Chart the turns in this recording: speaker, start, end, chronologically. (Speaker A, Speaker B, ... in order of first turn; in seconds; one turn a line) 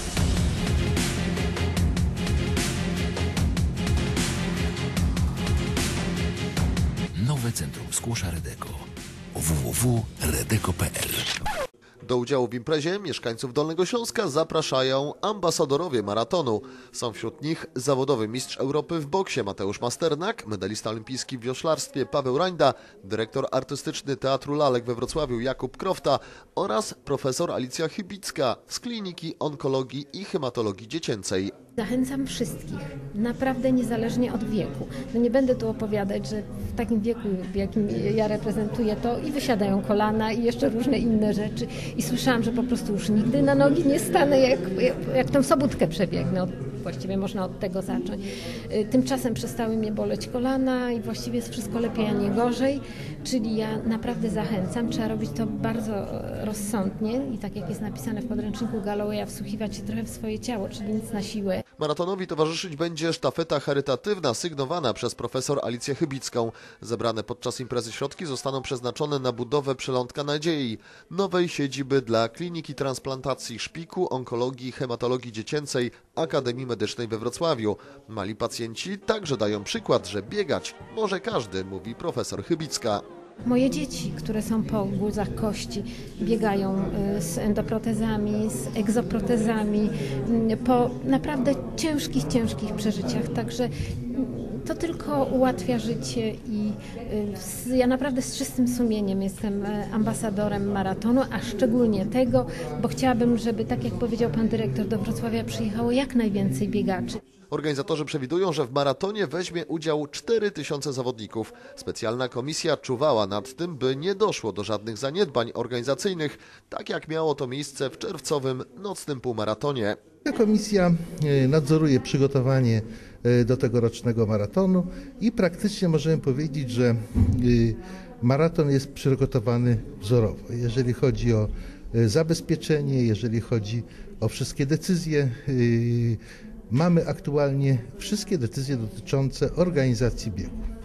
Speaker A: 7.1-11.4
Speaker B: 12.0-31.5
Speaker C: 31.8-61.6
Speaker B: 61.8-83.0
Speaker C: 83.4-107.2
Speaker B: 107.5-120.0
Speaker D: 120.2-136.2
Speaker D: 136.7-140.6